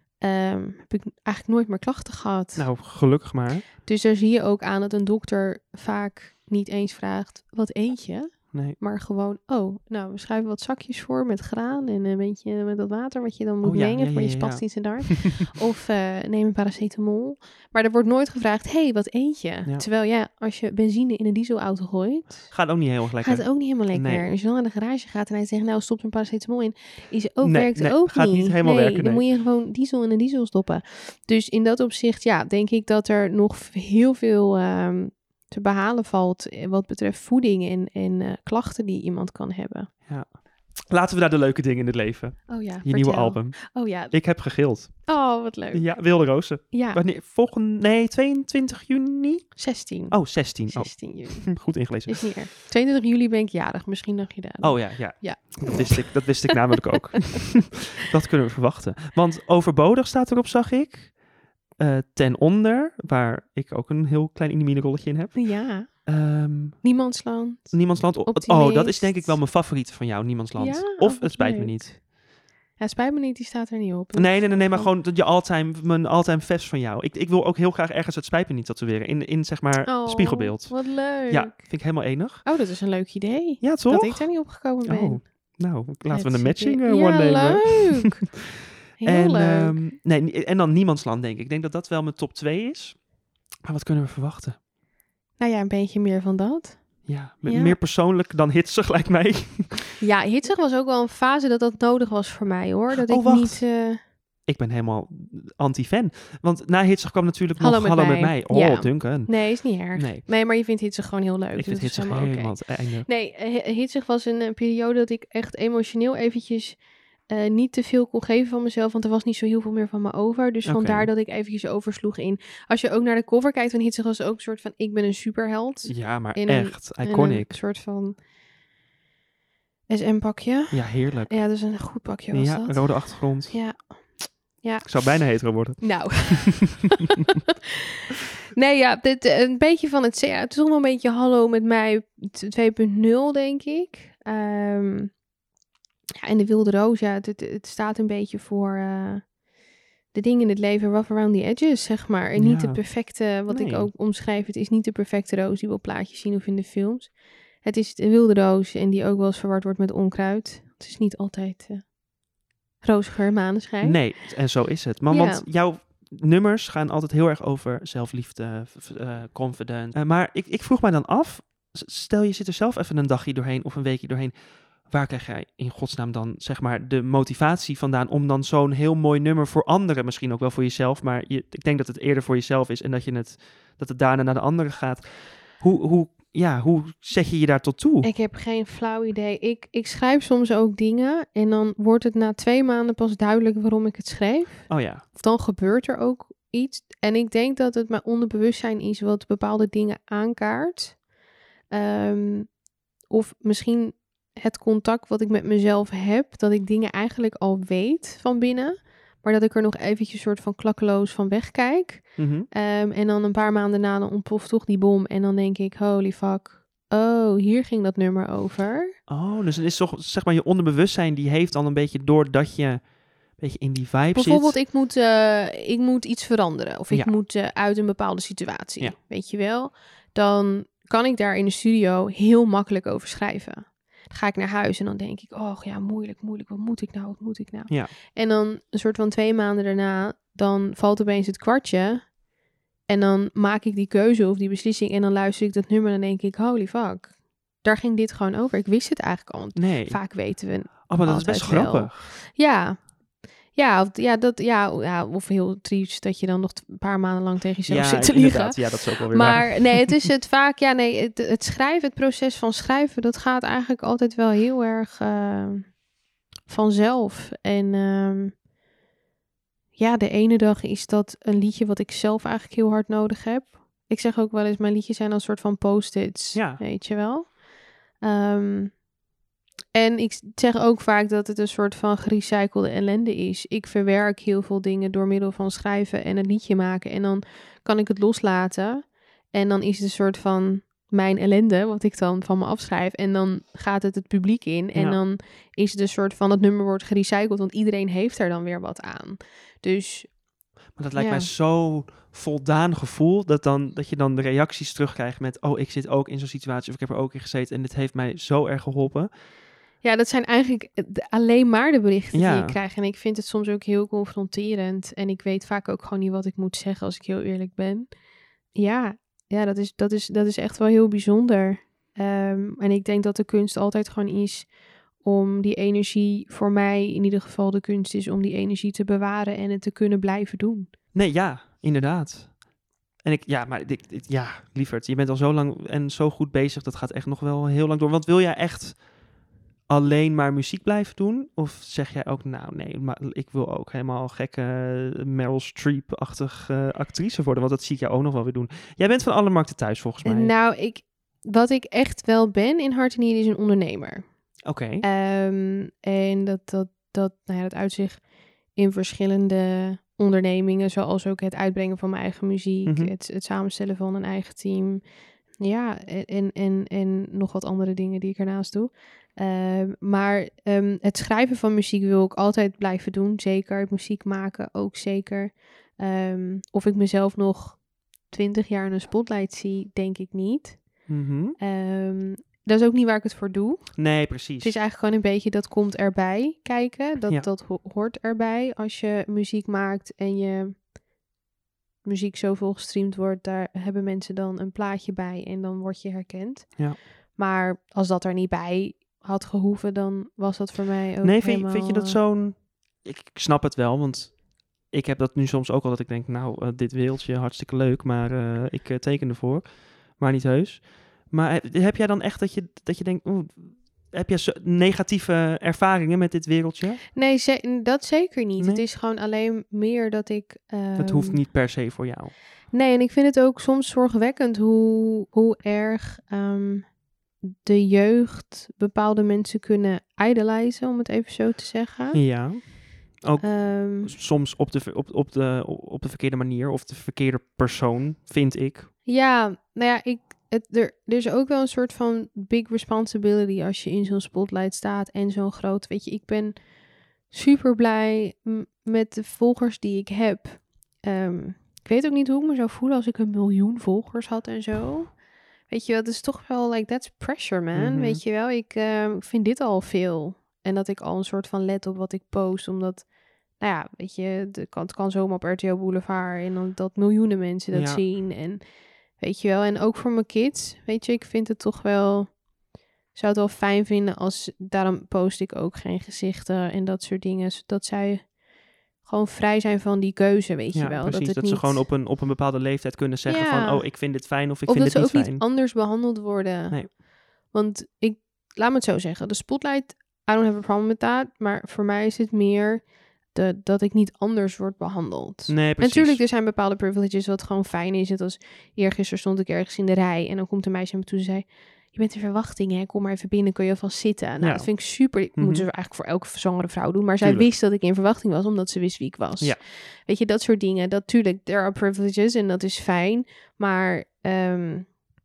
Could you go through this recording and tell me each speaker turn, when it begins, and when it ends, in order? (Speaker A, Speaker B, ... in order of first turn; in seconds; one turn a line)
Speaker A: 0.2-2.7
Speaker B: 2.5-3.6
Speaker A: 3.8-39.9
Speaker B: 8.5-8.8
Speaker B: 13.6-15.3
Speaker B: 22.5-24.2
Speaker B: 27.4-29.3
Speaker B: 40.0-52.4
Speaker A: 42.5-47.0
Speaker A: 49.5-56.6
Speaker B: 54.6-61.2
Speaker B: 61.8-67.0
Speaker A: 65.3-66.1
Speaker A: 66.8-69.4
Speaker B: 67.7-72.0
Speaker A: 70.6-72.1
Speaker A: 72.8-74.9
Speaker B: 74.1-82.5
Speaker A: 79.8-88.4
Speaker B: 83.6-88.1
Speaker A: 89.0-89.8
Speaker B: 89.0-93.1
Speaker B: 93.6-94.6
Speaker A: 95.4-97.8
Speaker B: 97.0-100.0
Speaker A: 100.0-104.0
Speaker B: 103.0-103.8
Speaker B: 104.4-110.3
Speaker A: 107.6-128.2
Speaker B: 111.5-113.1
Speaker B: 120.6-121.1
Speaker B: 125.8-127.6
Speaker A: 129.9-136.9
Speaker B: 130.7-133.6
Speaker B: 134.8-136.5
Speaker A: 138.5-145.2
Speaker A: 146.2-149.3
Speaker A: 150.1-162.0
Speaker B: 152.3-153.9
Speaker A: 162.8-164.1
Speaker B: 163.8-188.1
Speaker A: 165.1-165.4
Speaker A: 188.0-201.0
Speaker B: 194.7-195.0
Speaker A: 201.7-218.9
Speaker B: 212.2-212.5
Speaker B: 219.1-224.6
Speaker A: 224.1-242.2
Speaker A: 242.8-265.8
Speaker B: 249.5-252.2
Speaker B: 257.6-260.0
Speaker A: 266.4-268.4
Speaker A: 269.8-277.4
Speaker B: 276.3-276.6
Speaker A: 277.9-278.8
Speaker A: 279.7-300.2
Speaker B: 294.7-295.0
Speaker B: 300.8-309.1
Speaker A: 300.9-301.3
Speaker A: 309.8-317.9
Speaker B: 312.1-312.6
Speaker A: 318.5-330.7
Speaker B: 330.9-332.4
Speaker B: 333.0-338.9
Speaker B: 339.7-350.3
Speaker A: 350.0-354.2
Speaker B: 354.4-354.8
Speaker A: 354.8-364.8
Speaker B: 362.6-362.9
Speaker A: 365.4-390.7
Speaker B: 380.9-381.4
Speaker B: 383.8-384.6
Speaker A: 391.8-402.0
Speaker B: 401.0-416.8
Speaker A: 416.9-421.2
Speaker B: 418.4-418.6
Speaker B: 420.8-422.1
Speaker A: 422.5-432.5
Speaker B: 431.9-438.7
Speaker A: 433.2-433.9
Speaker A: 438.9-446.4
Speaker A: 447.1-468.4
Speaker B: 457.5-458.0
Speaker B: 467.5-467.8
Speaker A: 468.9-472.2
Speaker A: 472.9-478.2
Speaker A: 478.8-481.6
Speaker B: 480.5-485.2
Speaker A: 483.1-514.8
Speaker B: 495.3-496.0
Speaker B: 504.2-505.5
Speaker B: 507.0-507.3